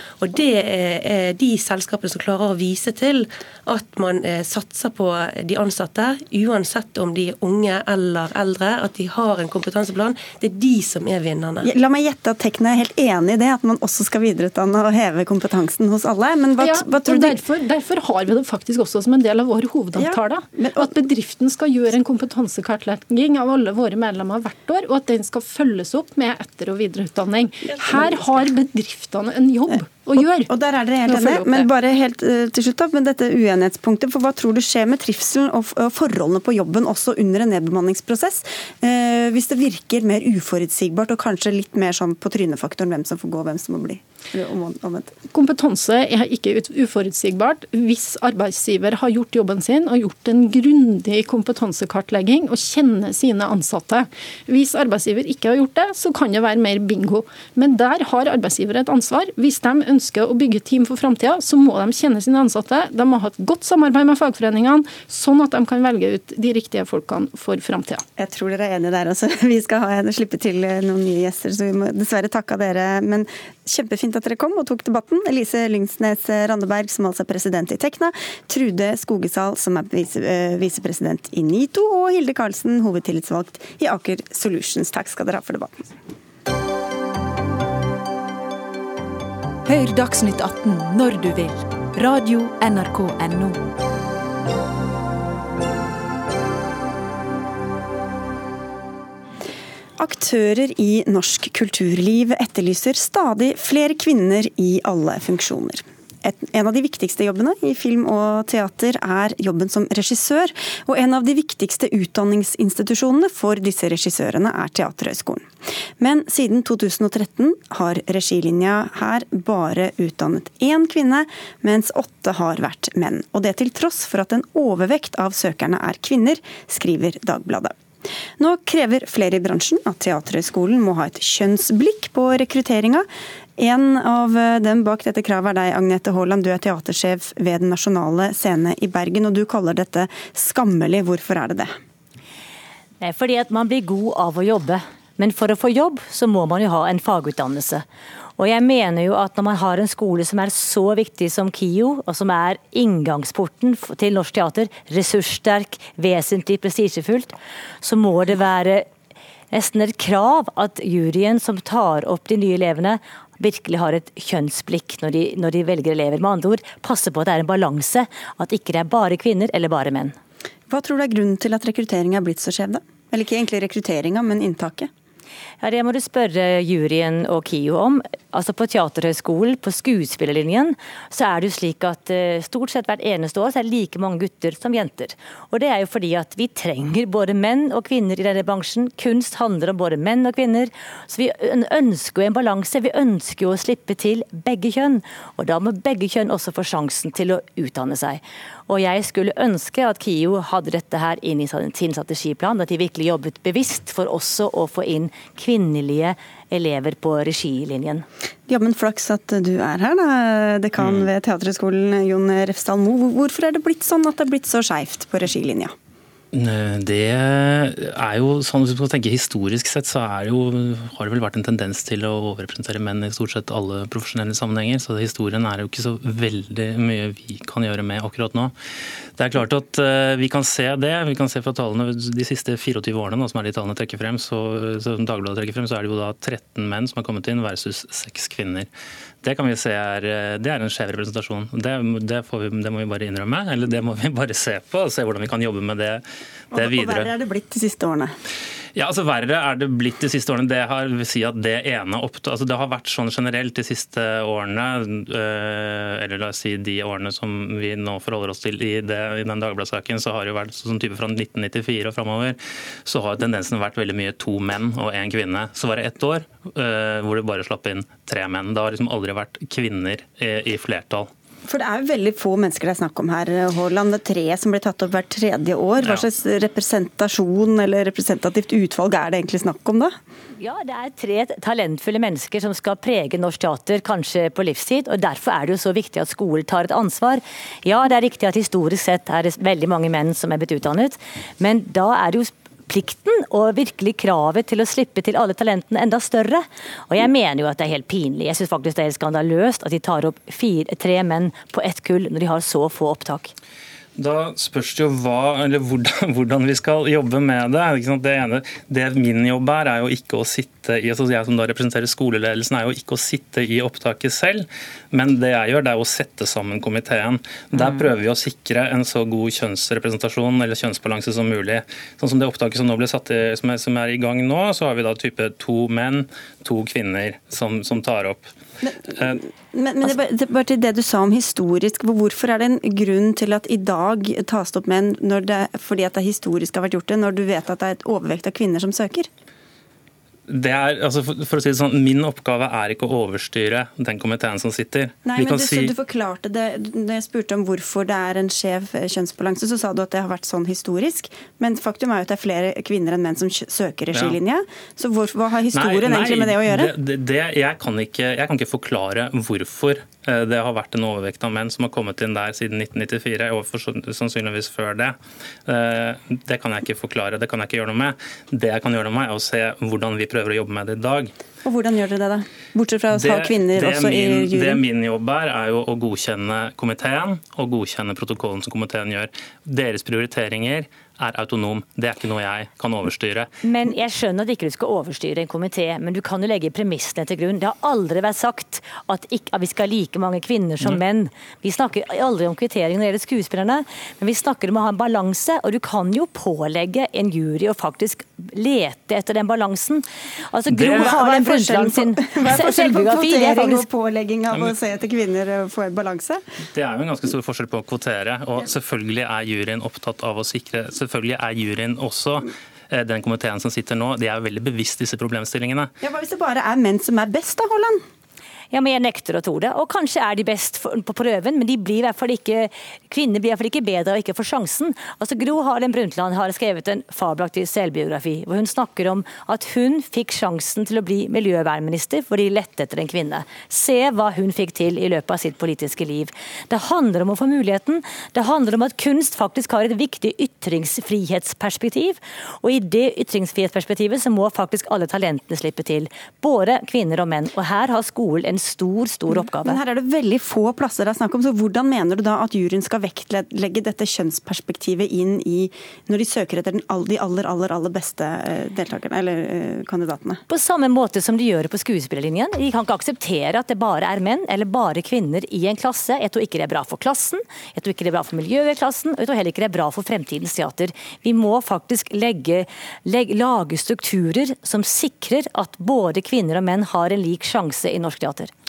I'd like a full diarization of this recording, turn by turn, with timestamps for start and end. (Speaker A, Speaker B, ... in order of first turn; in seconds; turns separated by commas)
Speaker A: 0.2-11.7, Speaker B: 11.6-17.4, Speaker C: 16.6-31.7, Speaker B: 20.0-20.9, Speaker B: 30.5-45.1, Speaker C: 45.3-68.0, Speaker B: 68.2-85.8, Speaker D: 89.7-93.7, Speaker B: 100.0-127.8, Speaker B: 128.4-133.1, Speaker B: 133.6-141.7, Speaker E: 143.0-147.8, Speaker E: 148.4-158.9, Speaker E: 159.5-170.1, Speaker B: 170.7-174.9, Speaker E: 175.6-208.1, Speaker B: 208.5-215.7, Speaker F: 210.8-211.1, Speaker F: 216.3-228.5, Speaker F: 229.2-238.7, Speaker F: 239.2-246.0, Speaker B: 246.5-248.1, Speaker F: 246.6-247.1, Speaker F: 248.8-271.1, Speaker B: 271.5-279.9, Speaker E: 280.4-303.3, Speaker F: 304.0-328.3, Speaker B: 328.6-339.1, Speaker F: 340.3-345.7, Speaker B: 345.0-356.7, Speaker F: 355.5-364.9, Speaker F: 365.5-371.1, Speaker B: 371.4-374.6, Speaker F: 372.9-383.3, Speaker E: 383.4-403.6, Speaker F: 400.5-400.9, Speaker B: 400.7-406.2, Speaker F: 406.5-415.7, Speaker B: 415.8-417.8, Speaker E: 418.5-449.6, Speaker B: 449.1-460.2, Speaker E: 460.3-478.3